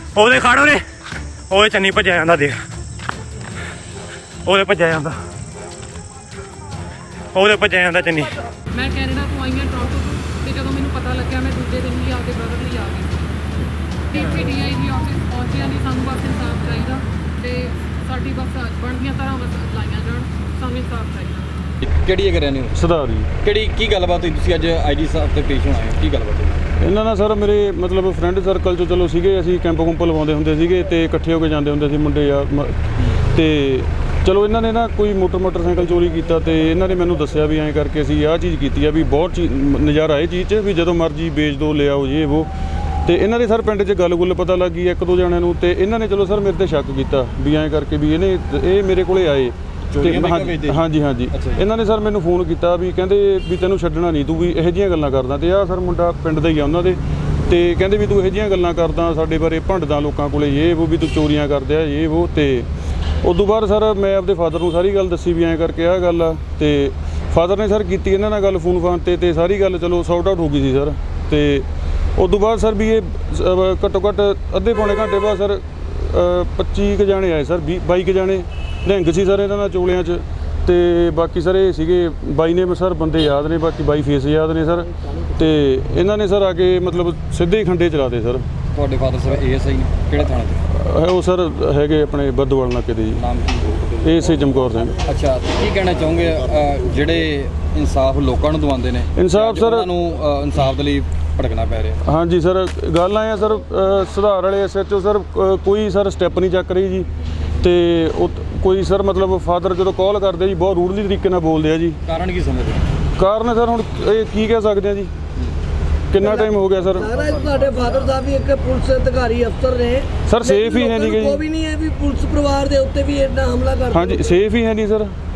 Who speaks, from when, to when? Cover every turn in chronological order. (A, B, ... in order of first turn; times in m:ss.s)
0:00.2-0:00.8 A
0:01.5-0:02.6 A
0:04.4-0:05.2 A
0:07.3-0:08.3 A
0:08.7-0:13.2 B
0:14.1-0:21.5 B
0:21.8-0:22.8 C
0:22.7-0:23.3 D
0:23.4-0:26.6 C
0:26.8-0:42.5 D
0:43.1-1:02.7 D
0:49.9-0:51.6 C
1:03.2-1:11.6 D
1:12.2-1:28.4 D
1:28.7-1:30.6 C
1:30.7-1:33.2 D
1:33.2-1:33.9 C
1:34.0-1:35.0 D
1:35.0-1:42.0 C
1:39.2-1:39.9 D
1:42.0-1:47.1 D
1:47.6-1:52.0 D
1:52.1-1:52.8 C
1:53.2-1:55.1 D
1:56.1-1:57.1 D
1:57.1-1:58.0 C
1:57.2-2:00.9 E
2:00.3-2:01.4 D
2:01.5-2:04.2 E
2:03.9-2:05.1 D